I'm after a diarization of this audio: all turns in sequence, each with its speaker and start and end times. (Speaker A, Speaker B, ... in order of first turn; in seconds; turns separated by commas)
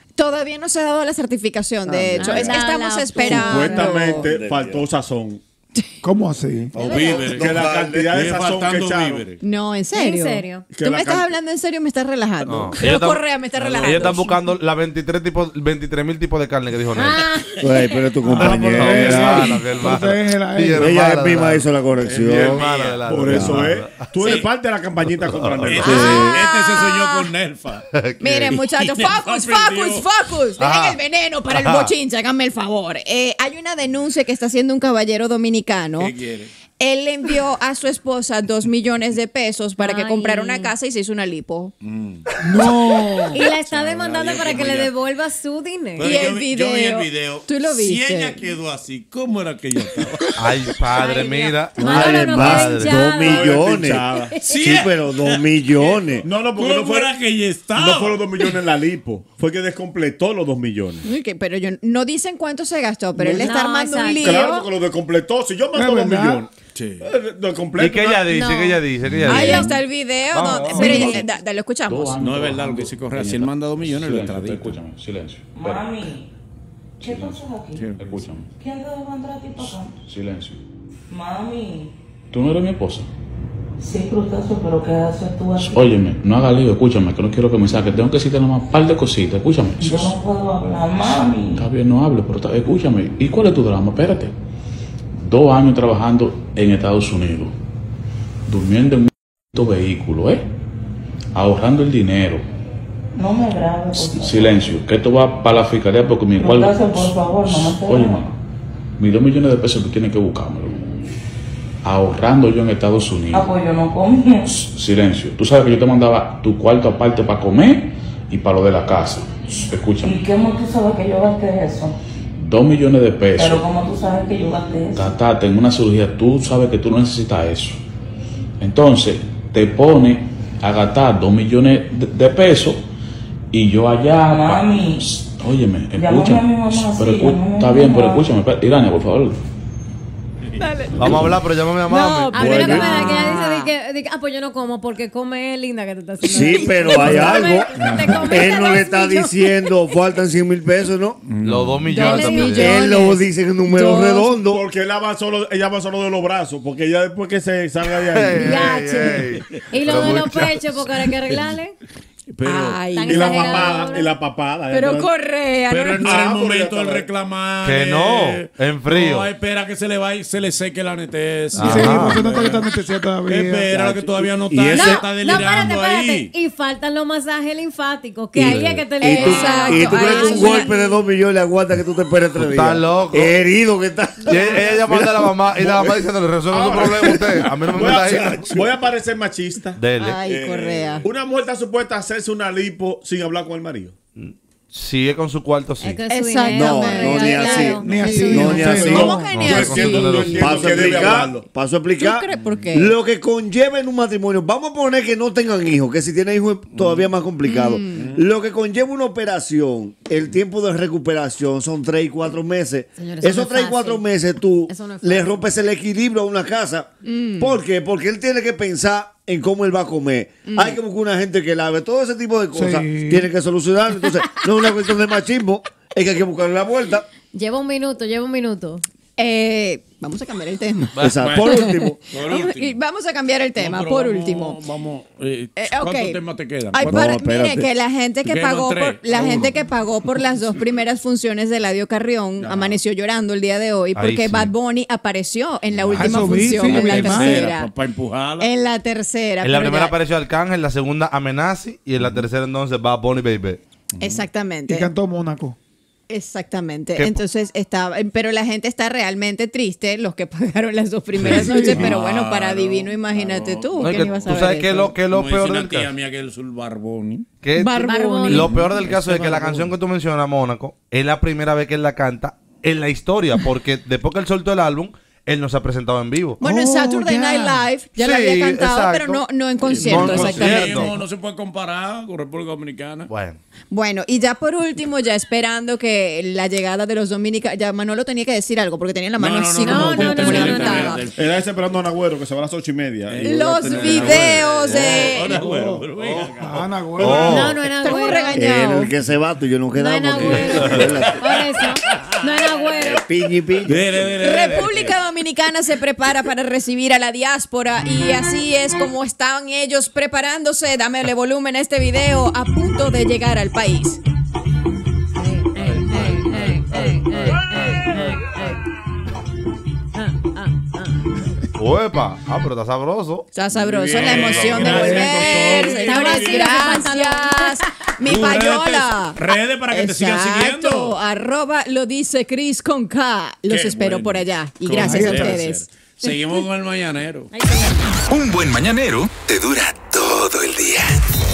Speaker A: 0.1-4.2, Speaker B: 1.9-2.6, Speaker C: 2.2-4.0, Speaker D: 3.2-5.4, Speaker B: 4.1-4.8, Speaker E: 6.0-6.8, Speaker B: 6.7-8.3, Speaker F: 6.8-9.4, Speaker A: 6.8-7.3, Speaker D: 7.3-9.3, Speaker A: 9.4-14.4, Speaker C: 9.9-10.7, Speaker D: 10.7-11.3, Speaker G: 12.4-17.2, Speaker C: 16.9-18.0, Speaker B: 17.6-19.5, Speaker E: 18.3-21.0, Speaker G: 18.3-21.7, Speaker B: 20.8-22.6, Speaker F: 22.0-23.0, Speaker D: 22.2-26.3, Speaker G: 22.6-24.2, Speaker B: 23.3-23.7, Speaker F: 24.2-24.5, Speaker G: 25.0-25.8, Speaker F: 25.6-30.1, Speaker A: 25.8-27.3, Speaker G: 27.9-28.6, Speaker A: 28.2-36.1, Speaker G: 30.6-31.9, Speaker F: 36.0-36.5, Speaker A: 36.8-41.7, Speaker C: 39.8-40.7, Speaker F: 41.8-45.0, Speaker C: 43.3-46.1, Speaker F: 46.0-50.7, Speaker A: 46.0-48.4, Speaker G: 50.4-53.0, Speaker C: 51.0-53.6, Speaker B: 52.0-56.3, Speaker D: 53.0-54.3, Speaker C: 54.2-54.5, Speaker F: 54.4-58.6, Speaker D: 56.2-57.2, Speaker D: 57.7-61.1, Speaker A: 61.0-64.7, Speaker D: 63.2-63.5, Speaker C: 63.4-64.3, Speaker D: 64.2-68.3, Speaker E: 65.7-66.4, Speaker F: 66.8-67.1, Speaker G: 67.8-69.7, Speaker C: 68.3-68.8, Speaker H: 69.0-69.7, Speaker A: 69.2-72.2, Speaker F: 69.2-69.7, Speaker G: 70.3-71.3, Speaker F: 70.7-71.1, Speaker C: 70.9-71.2, Speaker H: 71.9-75.9, Speaker F: 72.2-74.8, Speaker I: 75.5-76.3, Speaker H: 77.0-78.5, Speaker I: 77.0-77.9, Speaker F: 77.7-78.5, Speaker I: 78.6-79.9, Speaker H: 79.6-80.6, Speaker I: 81.1-81.9, Speaker H: 82.3-83.1, Speaker I: 83.8-85.9, Speaker H: 85.5-90.2, Speaker I: 89.8-91.6, Speaker H: 91.0-94.3, Speaker H: 95.2-97.5, Speaker H: 98.5-100.5, Speaker H: 101.3-102.5, Speaker I: 103.2-104.6, Speaker H: 103.9-108.4, Speaker I: 106.4-108.2, Speaker H: 109.0-111.1, Speaker H: 111.8-113.6, Speaker I: 113.3-114.6, Speaker H: 114.4-120.3, Speaker I: 120.0-122.0, Speaker H: 122.3-123.7, Speaker I: 123.4-125.1, Speaker H: 124.9-127.8, Speaker H: 128.6-132.8, Speaker H: 133.5-139.4, Speaker I: 134.3-135.1, Speaker I: 135.9-138.2, Speaker G: 141.0-143.5, Speaker C: 141.9-149.8, Speaker B: 142.3-143.2, Speaker A: 143.4-143.7, Speaker B: 146.2-151.2, Speaker F: 147.8-148.4, Speaker F: 151.2-151.9, Speaker G: 151.4-152.8, Speaker C: 151.9-152.9, Speaker A: 151.9-154.4, Speaker B: 152.6-154.6, Speaker D: 154.5-158.6, Speaker G: 158.0-161.0, Speaker C: 158.3-161.8, Speaker F: 162.3-163.1, Speaker A: 162.4-163.6, Speaker C: 163.0-164.1, Speaker D: 163.1-165.1, Speaker A: 164.7-166.2, Speaker F: 165.7-172.7, Speaker D: 166.0-167.1, Speaker G: 167.6-169.3, Speaker G: 171.5-172.3, Speaker E: 171.6-173.8, Speaker F: 173.3-176.3, Speaker B: 173.7-175.1, Speaker C: 174.7-181.0, Speaker B: 178.3-185.3, Speaker A: 179.0-180.7, Speaker G: 182.3-183.3, Speaker G: 184.2-188.7, Speaker D: 185.6-194.0, Speaker G: 189.8-190.2, Speaker A: 189.9-191.1, Speaker G: 194.2-196.0, Speaker C: 195.8-198.8, Speaker A: 196.1-200.0, Speaker B: 196.5-199.2, Speaker E: 197.8-199.3, Speaker D: 198.6-201.4, Speaker G: 199.3-200.4, Speaker B: 200.2-227.1, Speaker A: 202.0-203.0, Speaker F: 206.7-207.1, Speaker A: 207.4-208.2, Speaker C: 213.0-214.1, Speaker C: 214.7-215.5, Speaker A: 217.1-217.6, Speaker A: 220.5-220.8, Speaker E: 222.5-223.3, Speaker C: 227.3-228.8, Speaker A: 229.2-234.6, Speaker G: 230.9-231.3, Speaker B: 231.0-232.0, Speaker F: 231.2-232.8, Speaker F: 233.6-237.2, Speaker A: 235.6-236.2, Speaker A: 236.7-247.7, Speaker B: 236.8-237.7, Speaker F: 238.2-239.6, Speaker F: 242.4-242.8, Speaker G: 243.9-244.5, Speaker F: 245.8-248.5, Speaker E: 245.9-247.5, Speaker A: 248.4-250.0, Speaker G: 249.4-253.6, Speaker F: 252.0-252.3, Speaker F: 253.9-254.2, Speaker A: 254.0-254.9, Speaker E: 254.7-255.6, Speaker A: 256.1-264.9, Speaker F: 261.2-267.3, Speaker E: 261.5-261.9, Speaker G: 263.8-265.9, Speaker G: 267.4-276.4, Speaker A: 267.6-268.6, Speaker C: 267.8-268.5, Speaker F: 268.4-269.6, Speaker A: 276.4-280.9, Speaker E: 276.4-277.7, Speaker G: 277.9-280.9, Speaker F: 279.6-283.1, Speaker G: 283.1-283.4, Speaker A: 283.7-291.0, Speaker F: 289.2-291.5, Speaker C: 289.6-291.0, Speaker D: 291.1-294.5, Speaker F: 293.1-296.7, Speaker A: 293.2-295.5, Speaker E: 295.3-295.9, Speaker G: 296.0-297.6, Speaker E: 296.4-297.5, Speaker C: 297.1-298.4, Speaker A: 297.6-298.9, Speaker B: 298.3-301.2, Speaker C: 299.7-303.1, Speaker F: 300.2-302.1, Speaker B: 302.8-303.8, Speaker F: 303.6-305.0, Speaker A: 304.1-314.0, Speaker C: 315.2-318.6, Speaker C: 319.9-321.0, Speaker G: 321.6-323.3, Speaker A: 323.3-335.7, Speaker F: 323.6-326.7, Speaker G: 323.9-325.2, Speaker C: 325.4-327.6, Speaker F: 328.0-331.0, Speaker F: 333.5-337.3, Speaker C: 336.0-336.4, Speaker C: 337.3-337.9, Speaker J: 338.1-340.9